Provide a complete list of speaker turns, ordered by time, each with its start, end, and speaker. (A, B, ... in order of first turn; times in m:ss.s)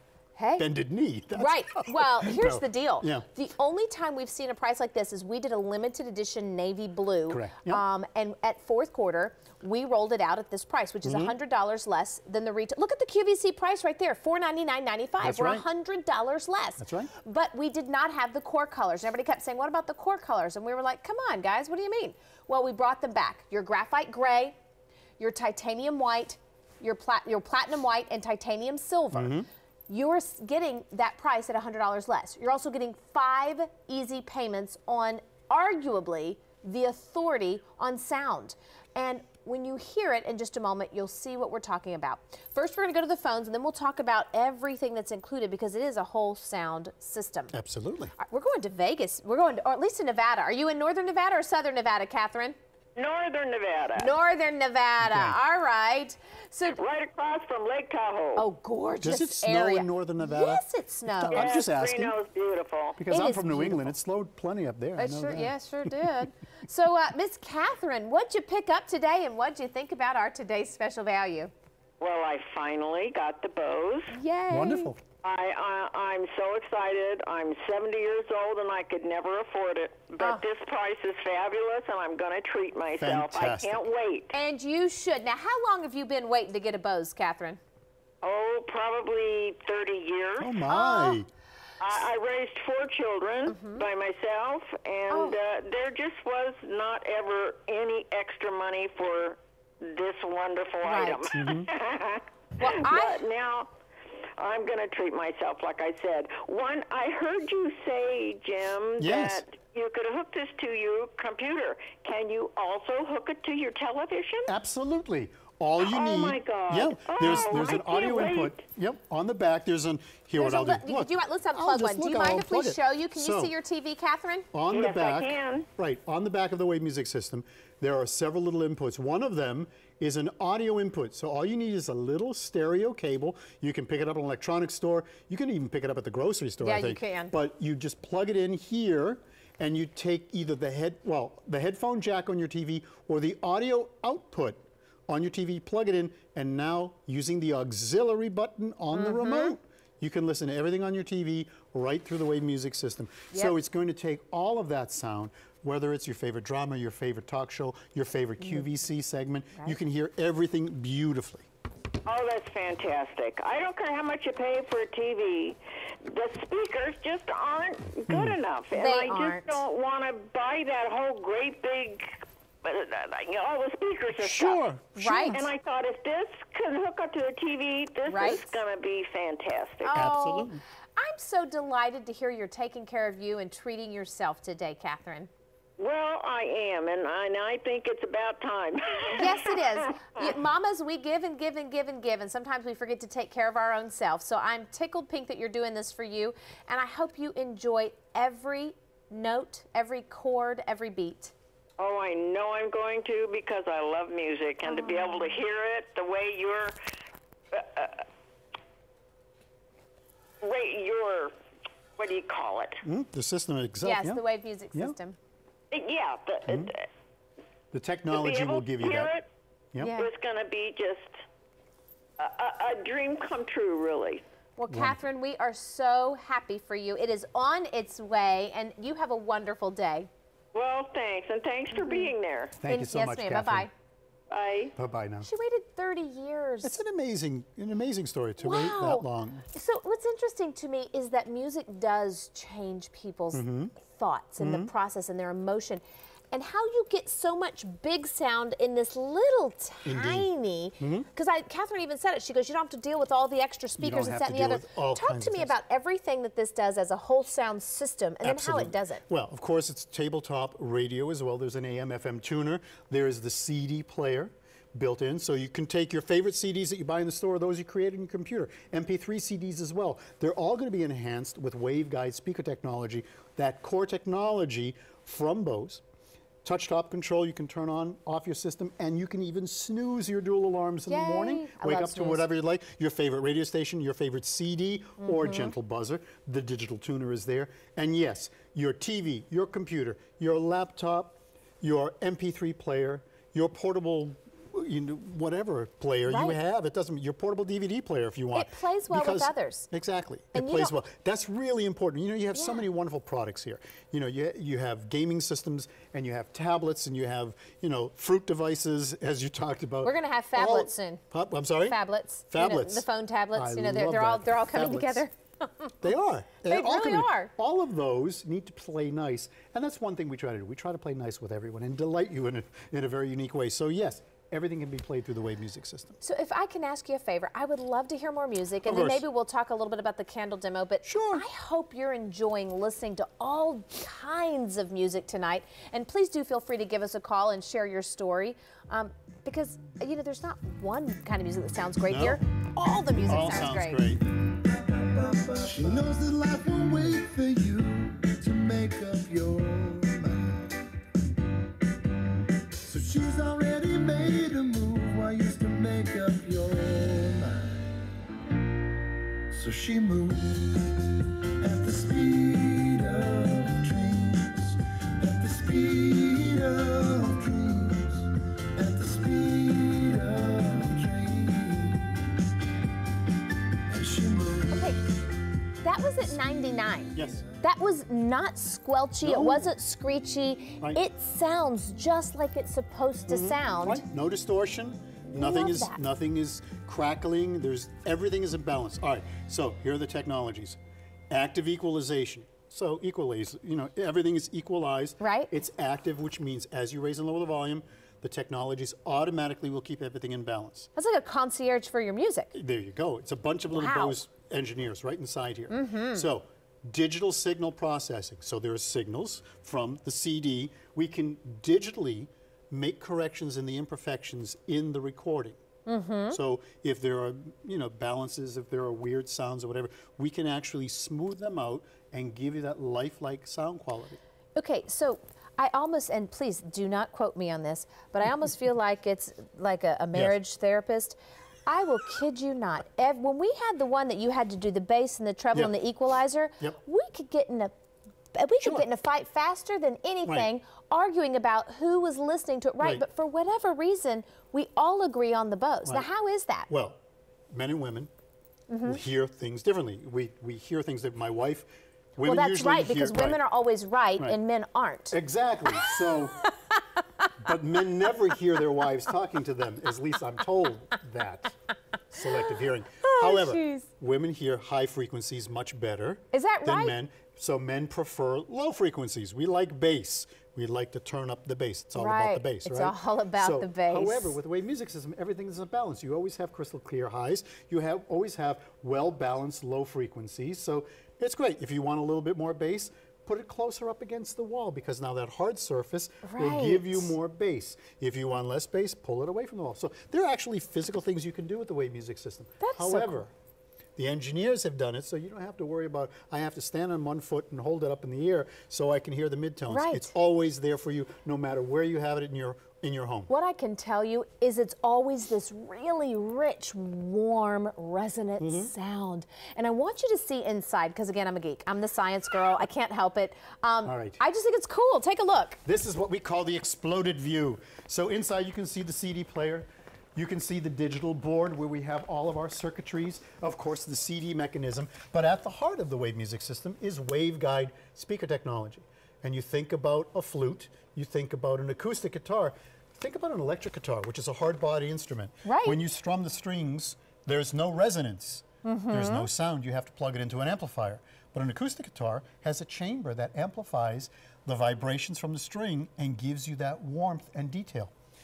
0:00.4-0:00.7 A
0:00.6-0:03.2 B
0:01.3-0:24.5 A
0:07.3-0:07.8 B
0:11.0-0:11.4 B
0:15.2-0:15.6 B
0:16.8-0:17.1 B
0:25.2-0:47.5 A
0:29.1-0:29.5 B
0:47.5-0:48.1 B
0:48.2-0:52.6 A
0:53.0-0:54.1 C
0:54.0-0:56.8 A
0:55.0-0:55.4 B
0:56.8-0:58.4 C
0:58.4-1:01.5 A
0:59.0-1:02.1 B
1:01.3-1:03.0 C
1:03.0-1:06.1 B
1:03.1-1:03.9 A
1:05.0-1:11.5 A
1:12.0-1:14.1 C
1:14.1-1:14.9 A
1:14.5-1:15.0 B
1:15.2-1:24.3 C
1:23.0-1:23.8 B
1:24.3-1:27.6 A
1:28.2-1:30.6 C
1:30.4-1:31.3 B
1:30.7-1:31.2 A
1:31.8-1:43.7 C
1:33.5-1:33.8 A
1:35.1-1:35.4 A
1:40.8-1:41.3 A
1:41.3-1:41.7 B
1:42.6-1:43.2 A
1:44.4-1:54.5 C
1:49.0-1:49.4 B
1:54.4-2:03.5 B
1:55.8-1:58.6 C
2:00.4-2:04.5 A
2:04.5-2:41.5 B
2:04.7-2:05.7 C
2:16.6-2:17.3 A
2:28.9-2:29.5 A
2:38.4-2:38.6 A
2:42.0-2:54.6 C
2:48.1-2:48.4 B
2:48.7-2:49.6 A
2:54.1-2:55.4 B
2:54.9-2:55.4 A
2:55.3-3:00.0 C
2:58.1-2:58.6 A
2:59.8-3:05.3 A
2:59.9-3:00.6 B
3:05.8-3:10.0 C
3:09.1-3:21.3 A
3:21.8-3:26.8 C
3:24.6-3:25.4 A
3:27.5-3:28.0 C
3:30.4-3:31.3 C
3:32.0-3:32.8 C
3:32.8-3:34.2 B
3:33.8-3:35.2 A
3:35.7-3:36.8 C
3:36.5-3:36.7 B
3:37.7-3:39.1 B
3:38.1-3:39.2 C
3:39.8-3:40.1 A
3:39.8-3:41.1 C
3:42.2-3:44.2 C
3:44.6-3:50.1 A
3:44.7-3:45.0 B
3:50.5-3:52.5 C
3:51.7-3:52.1 A
3:52.6-3:53.7 B
3:52.7-3:53.7 A
3:54.3-3:54.7 C
3:54.7-3:55.3 B
3:55.2-3:56.8 A
3:56.6-3:59.4 B
3:58.4-4:19.0 A
4:03.3-4:03.7 B
4:04.4-4:04.7 B
4:09.8-4:10.3 B
4:10.8-4:11.1 B
4:13.8-4:15.6 B
4:18.2-4:35.8 B
4:36.4-5:15.0 B
4:40.9-4:42.2 A
4:45.0-4:45.5 A
4:56.0-4:56.4 A
4:58.3-4:59.7 A
5:00.3-5:00.7 A
5:02.3-5:02.6 A
5:09.8-5:11.0 A
5:11.6-5:15.7 A
5:15.8-5:26.0 B
5:16.4-5:17.3 A
5:26.0-5:43.8 A
5:28.6-5:29.0 B
5:30.8-5:31.2 B
5:41.9-5:42.2 B
5:43.0-5:44.0 B
5:44.3-5:50.5 D
5:52.6-5:57.7 D
5:59.3-6:00.8 D
6:01.4-6:11.9 D
6:13.7-6:14.8 D
6:14.5-6:14.8 A
6:15.6-6:23.8 A
6:16.9-6:17.2 B
6:19.0-6:19.5 B
6:23.1-6:30.6 B
6:25.1-6:25.8 A
6:31.1-6:40.7 B
6:35.0-6:35.3 A
6:40.8-6:42.3 A
6:42.3-6:55.4 B
6:43.5-6:44.0 A
6:45.5-6:46.0 A
6:55.6-6:56.2 A
6:56.1-7:04.0 B
7:04.4-7:17.5 A
7:18.1-7:26.5 A
7:26.5-7:26.8 B
7:27.3-7:27.9 B
7:28.5-7:28.8 A
7:28.6-7:33.2 B
7:32.0-7:35.0 A
7:34.9-7:36.2 B
7:37.2-7:41.4 B
7:41.9-8:13.1 B
7:42.8-7:43.7 A
7:46.1-7:46.7 A
7:51.8-7:54.2 A
8:06.0-8:06.9 A
8:12.4-8:13.1 A
8:13.8-8:23.1 B
8:19.5-8:19.9 A
8:23.1-8:35.4 A
8:28.2-8:28.5 B
8:33.6-8:34.0 B
8:35.4-9:07.7 B
8:55.2-8:55.6 A
8:58.4-8:59.1 A